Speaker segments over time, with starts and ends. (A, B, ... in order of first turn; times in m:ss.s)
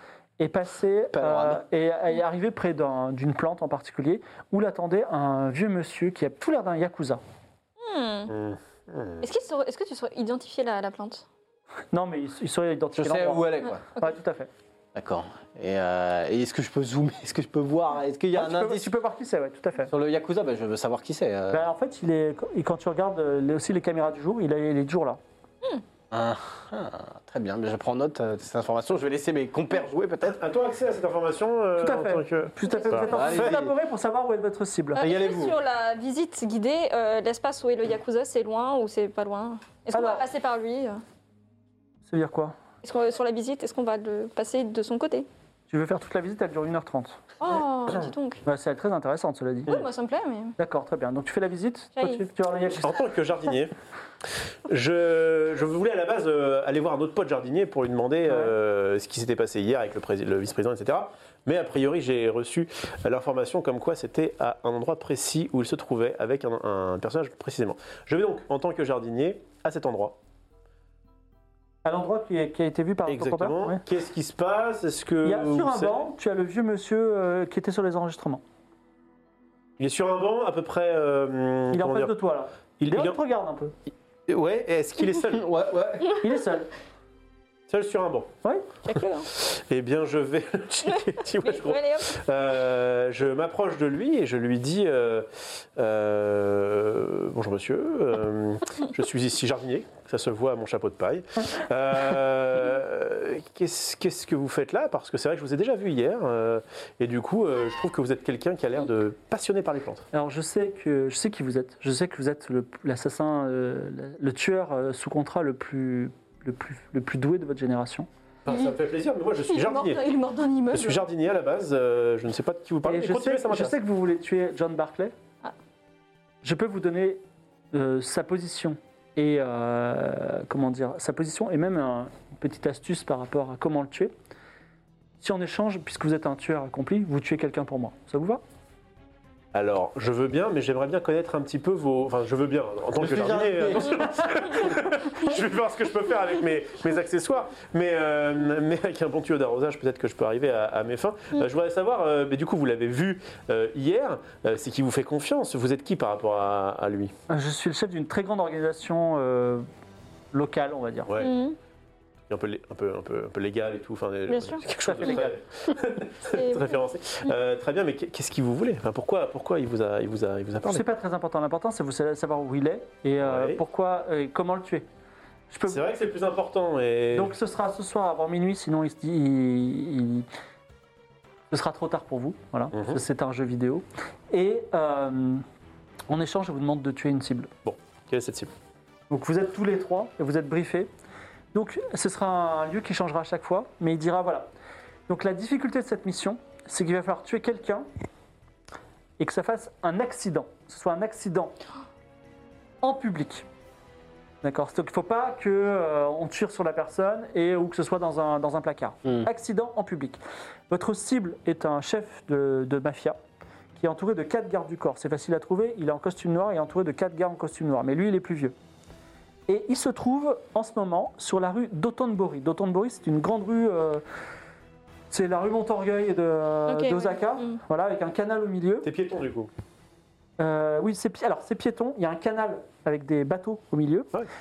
0:00.4-0:07.2 A
0:01.1-0:01.6 B
0:07.8-0:08.3 C
0:08.3-0:09.2 D
0:09.2-0:11.2 C
0:11.9-0:14.5 A
0:12.9-0:13.8 B
0:13.6-0:14.2 C
0:14.9-0:18.9 B
0:18.3-0:19.9 A
0:19.9-0:21.6 B
0:21.5-0:25.2 A
0:26.1-0:30.4 B
0:30.2-0:33.6 D
0:31.8-0:35.0 A
0:32.6-0:33.3 C
0:33.1-0:33.7 B
0:35.0-0:41.0 C
0:35.0-0:35.6 B
0:39.9-0:40.2 A
0:42.1-0:42.5 A
0:42.8-0:45.3 C
0:45.7-0:47.2 A
0:47.4-0:48.4 C
0:48.4-0:49.7 A
0:49.7-0:50.6 C
0:50.6-0:52.9 A
0:52.0-0:52.2 C
0:52.7-0:53.7 D
0:54.7-1:10.2 D
0:58.3-0:58.5 A
1:11.8-1:13.8 A
1:13.1-1:16.0 D
1:15.2-1:18.4 A
1:19.8-1:22.1 D
1:21.7-1:23.7 A
1:22.8-1:23.2 D
1:24.3-1:25.5 D
1:25.3-1:26.2 B
1:26.2-1:26.7 A
1:27.7-1:28.3 D
1:28.8-1:29.3 C
1:29.3-1:50.0 D
1:30.9-1:32.1 C
1:50.1-1:58.1 A
1:58.4-2:00.0 D
1:58.5-1:58.7 C
1:59.5-2:01.0 C
2:00.7-2:03.8 D
2:02.8-2:05.1 A
2:06.4-2:07.2 A
2:07.7-2:14.1 A
2:15.2-2:18.4 A
2:19.5-2:37.1 D
2:22.9-2:24.2 B
2:37.3-2:39.6 A
2:40.3-2:41.1 A
2:41.1-2:41.4 D
2:41.2-2:41.6 C
2:42.3-2:50.8 D
2:44.3-2:45.2 C
2:44.8-2:45.4 A
2:46.3-2:47.3 C
2:50.6-2:54.8 A
2:53.2-2:53.6 D
2:55.5-2:55.8 A
2:55.7-2:57.3 D
2:57.1-3:00.3 A
3:01.5-3:05.4 A
3:02.7-3:03.0 D
3:06.1-3:07.5 A
3:07.6-3:08.5 D
3:09.1-3:10.9 A
3:11.5-3:14.5 A
3:15.1-3:17.8 A
3:19.2-3:21.5 A
3:22.8-3:23.4 A
3:24.4-3:33.2 A
3:33.8-3:38.5 A
3:39.5-3:44.0 A
3:45.1-3:48.9 A
3:46.7-3:47.6 C
3:48.8-3:49.5 D
3:50.4-3:54.1 A